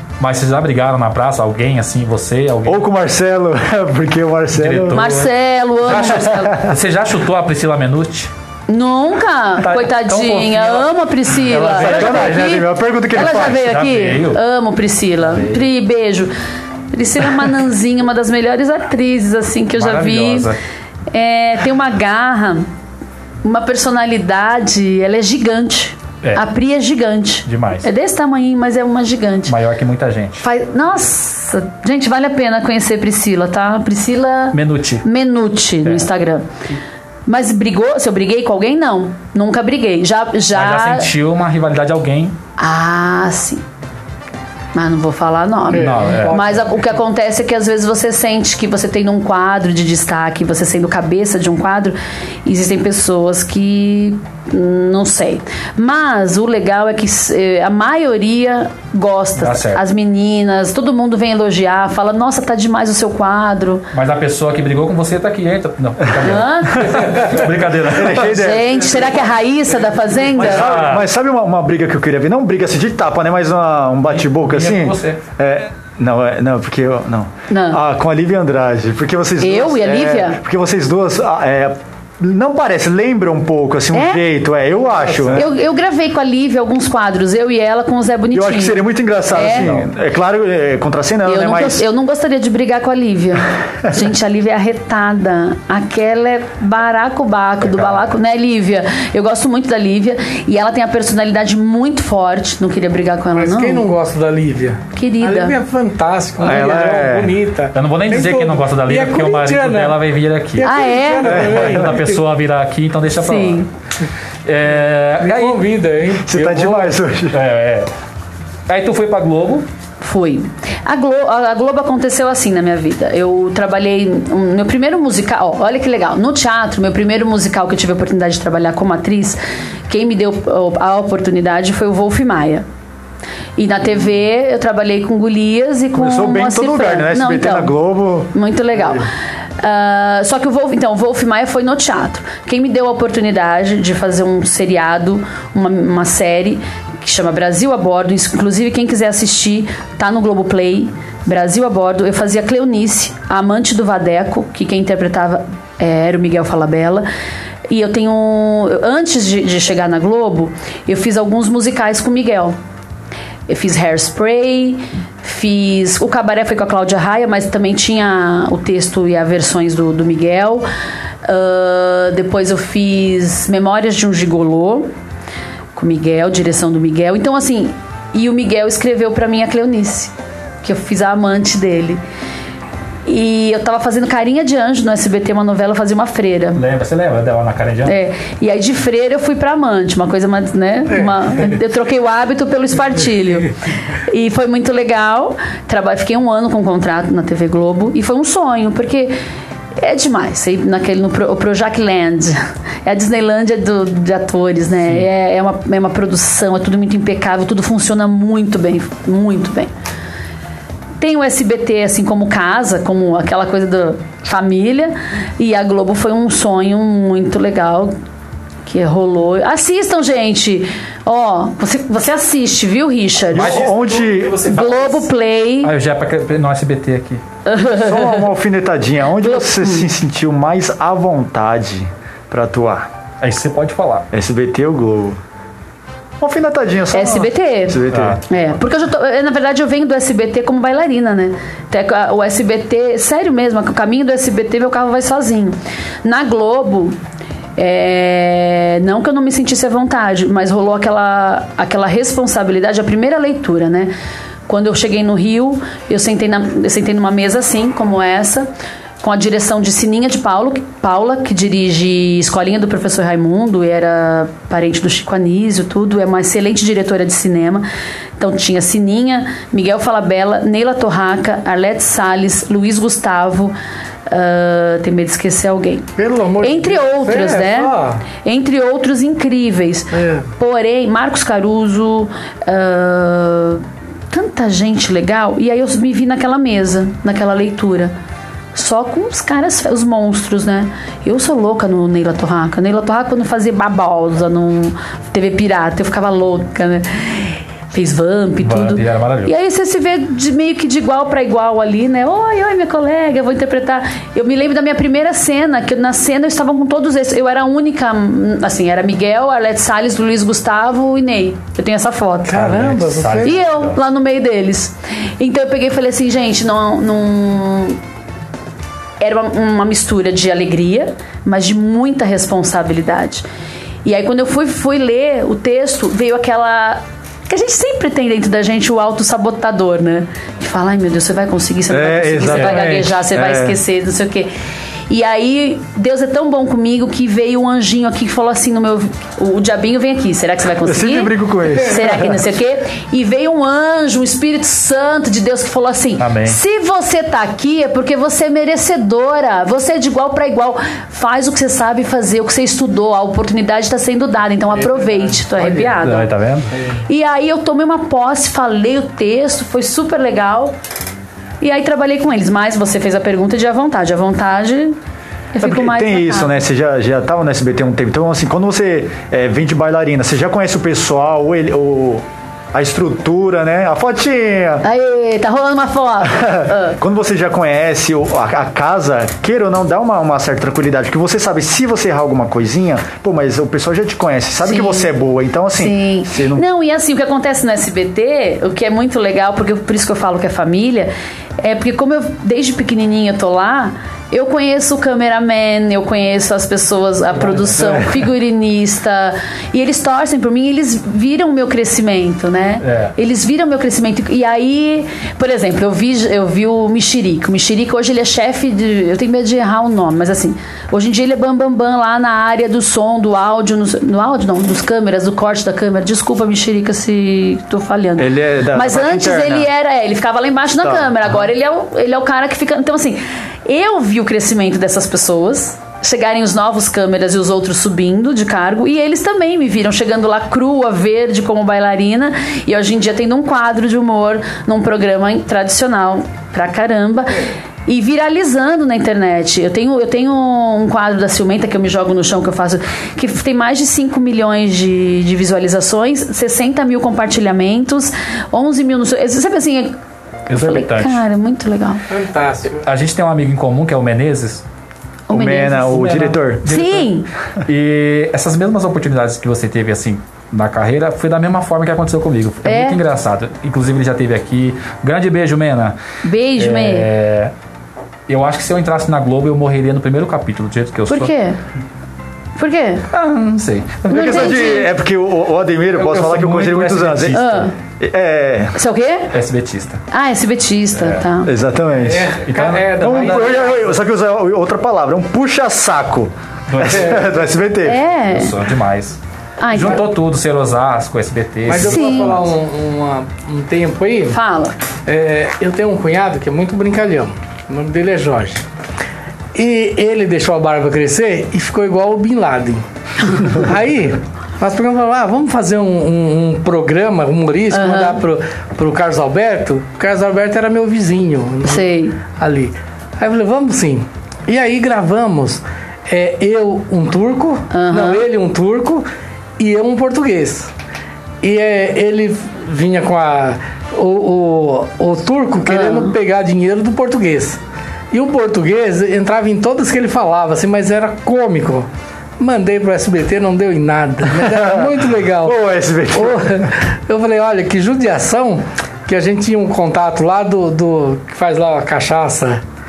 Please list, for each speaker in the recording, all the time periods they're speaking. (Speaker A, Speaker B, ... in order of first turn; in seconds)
Speaker A: 0.2-2.8, 4.5-5.3, 5.8-8.3, 9.6-12.6, 13.3-14.4, 15.3-15.6, 19.8-20.6, 27.4-27.9, 29.5-30.4, 34.5-35.0, 40.5-42.4, 45.7-46.6, 59.4-59.8, 63.9-68.4, 70.4-71.1, 74.1-75.2, 85.1-85.4, 89.5-89.9, 97.7-98.0, 107.7-113.7, 114.5-115.6, 117.3-117.9, 118.7-119.7, 186.6-188.0, 223.3-225.1, 225.6-227.2, 233.2-234.1, 237.9-238.2, 298.4-299.3, 312.3-313.8, 346.0-346.4, 355.8-356.5, 397.1-397.8, 402.6-402.9, 450.3-451.0, 452.6-454.4, 455.6-465.8, 466.4-467.3, 468.1-471.1, 472.9-474.5, 475.7-477.5, 479.1-479.8, 480.8-481.1, 482.2-482.8, 486.5-487.0, 488.0-489.0, 489.5-492.2
Speaker B: 2.6-5.0, 11.8-13.7, 67.9-69.2, 70.4-85.5, 88.3-91.8, 106.4-107.4, 111.3-111.8, 116.2-117.4, 135.9-138.3, 223.3-224.5, 227.8-232.9, 234.1-235.2, 236.2-238.2, 331.7-333.6, 340.6-342.1, 365.4-374.6, 376.8-386.4, 418.0-419.4, 420.6-420.9, 455.1-456.5, 473.9-478.6, 481.2-482.2, 482.8-487.8, 534.1-536.4
Speaker C: 4.9-6.6, 8.7-16.3, 16.9-20.5, 21.1-22.7, 23.4-29.6, 30.4-36.5, 37.3-41.1, 42.6-43.6, 44.7-63.9, 66.2-67.3, 68.3-70.7, 77.5-77.8, 79.4-80.4, 83.9-84.2, 85.3-89.7, 91.2-103.8, 104.9-105.6, 110.6-111.4, 113.2-113.7, 120.0-132.6, 133.6-137.7, 138.3-139.1, 139.6-157.1, 157.7-162.6, 163.5-170.7, 171.2-174.9, 175.8-180.1, 180.6-182.0, 183.1-186.6, 187.8-199.2, 199.8-209.7, 211.0-217.9, 218.7-223.6, 224.4-225.7, 227.4-228.3, 229.2-229.9, 236.9-247.0, 247.6-253.9, 254.5-258.5, 259.0-267.7, 268.2-273.6, 274.1-275.9, 276.4-287.9, 288.6-312.4, 313.2-317.8, 319.0-323.2, 323.9-334.3, 334.9-356.1, 356.9-360.6, 361.4-364.8, 365.3-366.3, 374.6-376.8, 384.4-384.9, 385.5-449.8, 450.3-451.9, 455.1-455.8, 456.4-457.1, 462.4-462.8, 466.0-466.9, 470.9-471.4, 472.4-472.9, 473.9-474.7, 477.1-477.5, 478.5-479.1, 479.9-481.3, 487.6-488.4, 489.4-489.8, 491.6-492.1, 494.1-494.5, 507.5-508.0, 511.4-512.0, 517.5-518.0, 525.5-525.9
Speaker D: 45.7-46.7, 66.9-67.3, 103.3-110.0, 110.6-112.2, 115.2-116.9, 190.9-191.6, 276.0-278.1, 279.9-280.3, 312.2-313.4, 354.6-355.8, 451.9-452.6, 481.8-483.8, 486.7-487.0, 491.5-494.2, 494.9-498.4, 499.4-518.9, 519.4-520.5, 521.2-527.4, 527.9-531.7, 532.2-535.4, 535.9-542.4